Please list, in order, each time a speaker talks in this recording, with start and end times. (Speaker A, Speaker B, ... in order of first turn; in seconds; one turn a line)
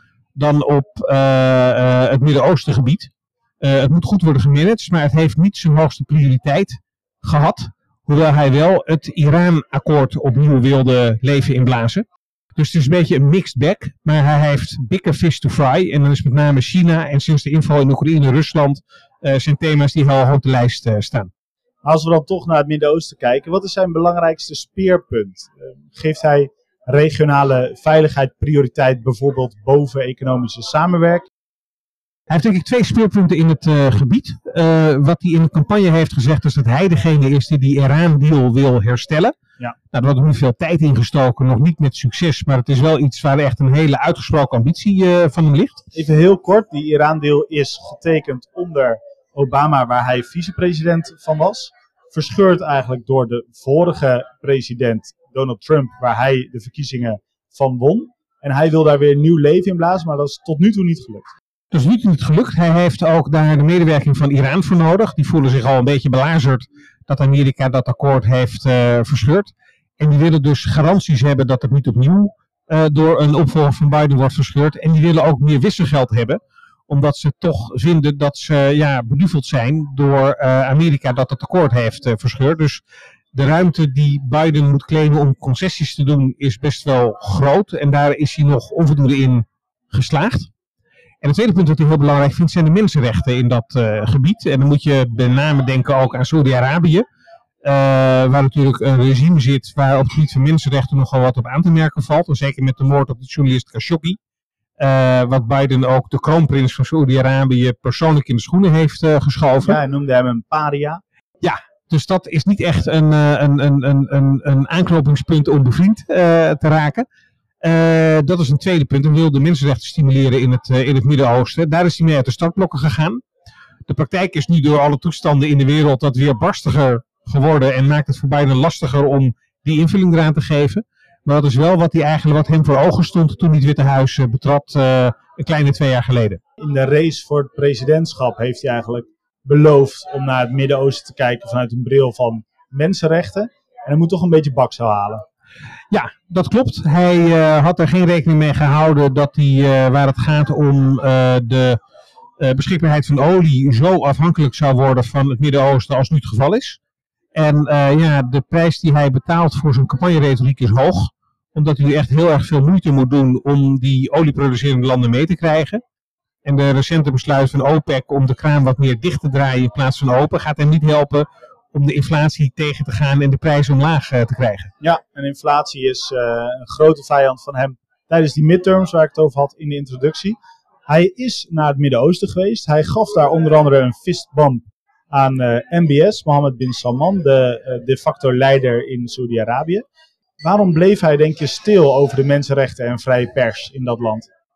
Speaker A: 0.3-21.3
Speaker B: 21.8-31.3
Speaker A: 32.3-39.4
Speaker A: 39.9-45.8
Speaker B: 45.9-61.3
Speaker A: 61.7-82.8
Speaker A: 83.3-90.5
Speaker A: 91.2-97.0
Speaker A: 97.6-104.2
Speaker A: 104.8-109.8
Speaker B: 109.6-111.0
Speaker A: 111.4-117.1
Speaker A: 117.6-123.2
Speaker A: 123.9-136.4
Speaker B: 136.6-145.2
Speaker A: 145.9-151.8
Speaker A: 152.4-156.8
Speaker A: 157.3-165.8
Speaker A: 166.4-174.7
Speaker B: 174.8-180.4
Speaker B: 180.9-189.8
Speaker B: 190.4-194.3